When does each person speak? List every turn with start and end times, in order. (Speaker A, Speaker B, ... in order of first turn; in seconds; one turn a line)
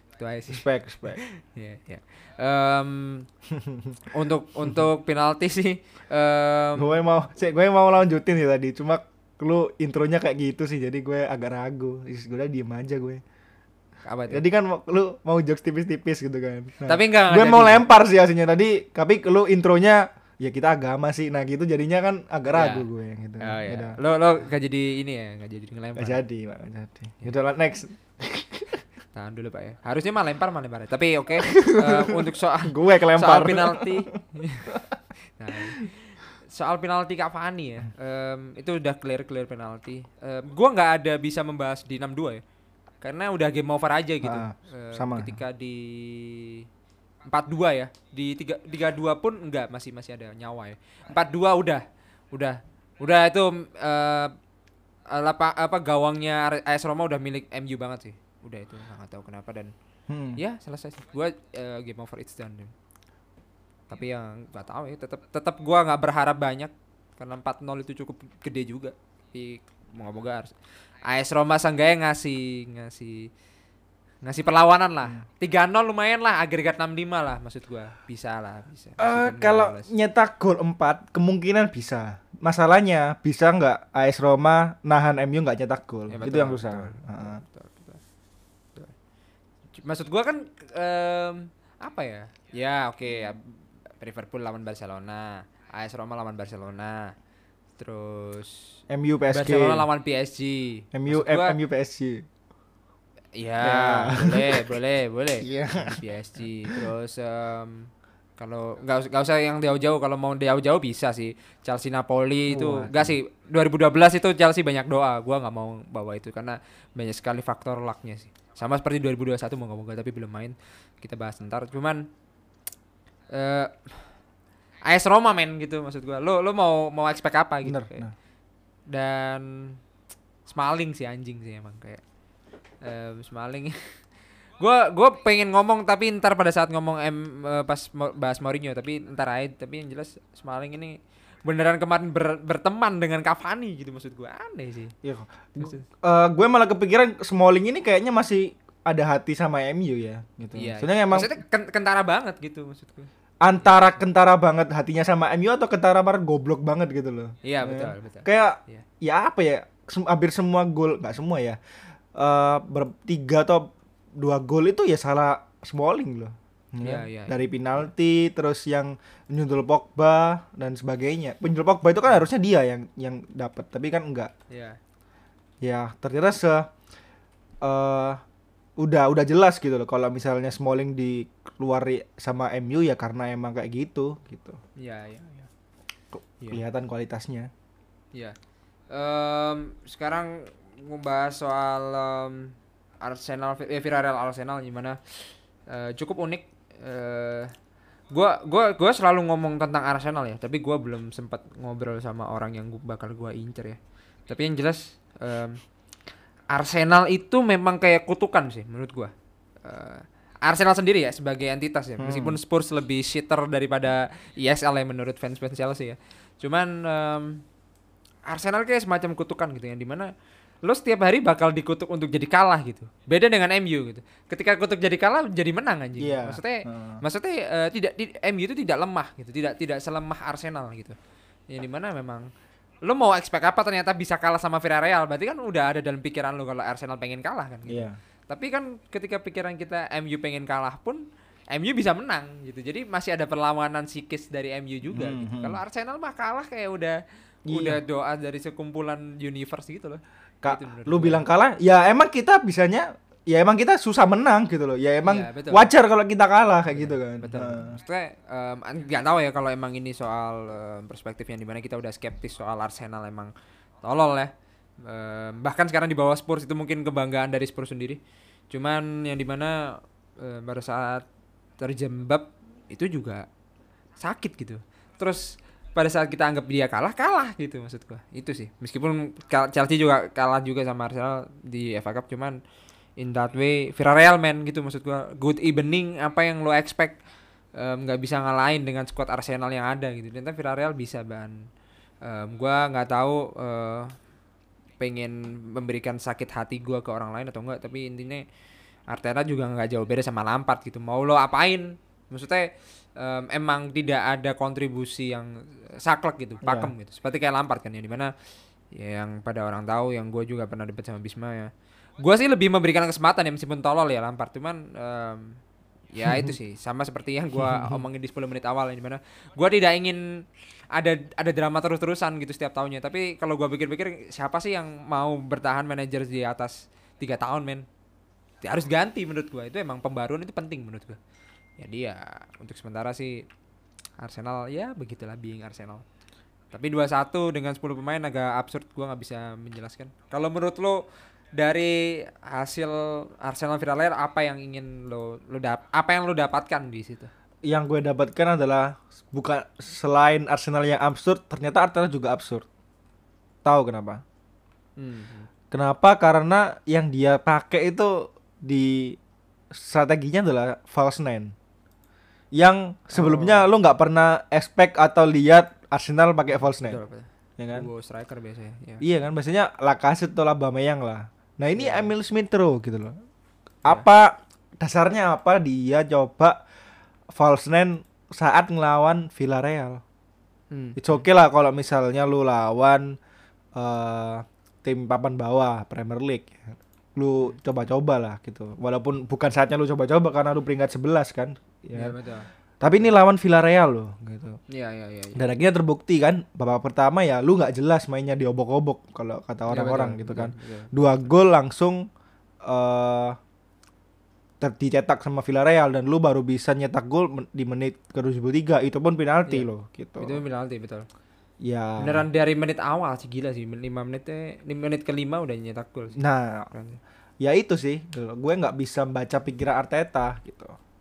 Speaker A: 0.2-3.3
Speaker B: 0.5-1.2
Speaker B: 3.5-4.0
Speaker A: 4.1-7.0
Speaker B: 6.8-13.2
Speaker A: 14.1-14.4
Speaker B: 14.3-24.0
Speaker A: 16.9-17.9
Speaker A: 22.5-22.9
Speaker A: 23.4-26.2
Speaker B: 26.0-28.8
Speaker A: 29.1-34.8
Speaker B: 31.4-34.9
Speaker A: 35.4-42.4
Speaker A: 43.0-46.6
Speaker B: 44.2-45.4
Speaker A: 47.2-54.3
Speaker A: 55.1-59.7
Speaker B: 60.1-60.4
Speaker A: 60.4-62.7
Speaker A: 63.9-73.3
Speaker A: 74.2-79.9
Speaker B: 79.0-87.4
Speaker A: 86.1-88.0
Speaker A: 89.8-97.1
Speaker A: 97.8-98.8
Speaker B: 98.9-99.9
Speaker A: 99.3-101.6
Speaker B: 100.9-102.2
Speaker A: 103.3-122.1
Speaker B: 103.6-104.6
Speaker B: 105.4-106.0
Speaker B: 112.5-113.2
Speaker A: 123.3-124.1
Speaker A: 124.8-128.1
Speaker B: 127.6-128.1
Speaker A: 128.9-129.8
Speaker A: 130.5-132.0
Speaker A: 132.8-133.8
Speaker A: 134.6-144.9
Speaker B: 145.0-151.3
Speaker A: 145.6-145.8
Speaker A: 150.5-153.1
Speaker B: 153.4-161.6
Speaker A: 153.6-154.0
Speaker A: 157.4-158.8
Speaker B: 162.1-174.3
Speaker A: 166.8-167.9
Speaker A: 174.5-174.8
Speaker B: 175.6-176.7
Speaker B: 177.6-178.2
Speaker B: 178.8-184.6
Speaker A: 184.8-185.5
Speaker B: 186.1-187.5
Speaker A: 188.9-197.5
Speaker A: 198.1-205.6
Speaker A: 206.5-209.1
Speaker A: 209.6-217.4
Speaker B: 212.0-212.4
Speaker A: 218.2-220.1
Speaker A: 220.6-230.9
Speaker B: 226.0-227.0
Speaker A: 231.5-232.3
Speaker A: 232.8-251.2
Speaker B: 237.7-238.0
Speaker B: 244.9-245.6
Speaker B: 247.5-247.8
Speaker B: 250.4-257.8
Speaker A: 255.0-255.7
Speaker A: 256.7-263.3
Speaker A: 263.8-268.0
Speaker A: 268.5-271.0
Speaker A: 271.6-273.2
Speaker A: 274.0-282.4
Speaker A: 283.0-287.0
Speaker A: 287.6-291.4
Speaker A: 292.0-293.9
Speaker A: 294.8-298.2
Speaker A: 298.9-308.1
Speaker B: 306.4-306.7
Speaker A: 308.7-315.4
Speaker A: 315.9-320.0
Speaker B: 316.1-316.3
Speaker B: 317.4-317.8
Speaker A: 320.7-327.6
Speaker A: 328.4-331.0
Speaker A: 331.6-333.2
Speaker A: 334.0-335.8
Speaker A: 336.5-340.8
Speaker A: 341.4-347.1
Speaker B: 347.5-352.5
Speaker B: 353.4-354.0
Speaker A: 354.8-355.3
Speaker B: 355.5-359.0
Speaker B: 359.5-361.3
Speaker B: 362.3-366.8
Speaker A: 362.9-363.5
Speaker A: 366.3-368.8
Speaker B: 367.4-367.7
Speaker B: 368.8-372.9
Speaker A: 371.6-371.9
Speaker B: 373.6-376.4
Speaker B: 377.1-379.8
Speaker A: 380.5-381.0
Speaker B: 380.8-383.0
Speaker B: 383.6-391.9
Speaker A: 391.7-392.3
Speaker B: 392.6-394.4
Speaker A: 394.5-395.3
Speaker B: 395.1-401.9
Speaker A: 399.5-400.9
Speaker B: 402.4-403.2
Speaker B: 404.4-410.2
Speaker A: 410.0-410.9
Speaker B: 411.4-412.1
Speaker A: 411.8-416.0
Speaker B: 415.9-416.5
Speaker A: 416.5-416.8
Speaker B: 417.2-420.6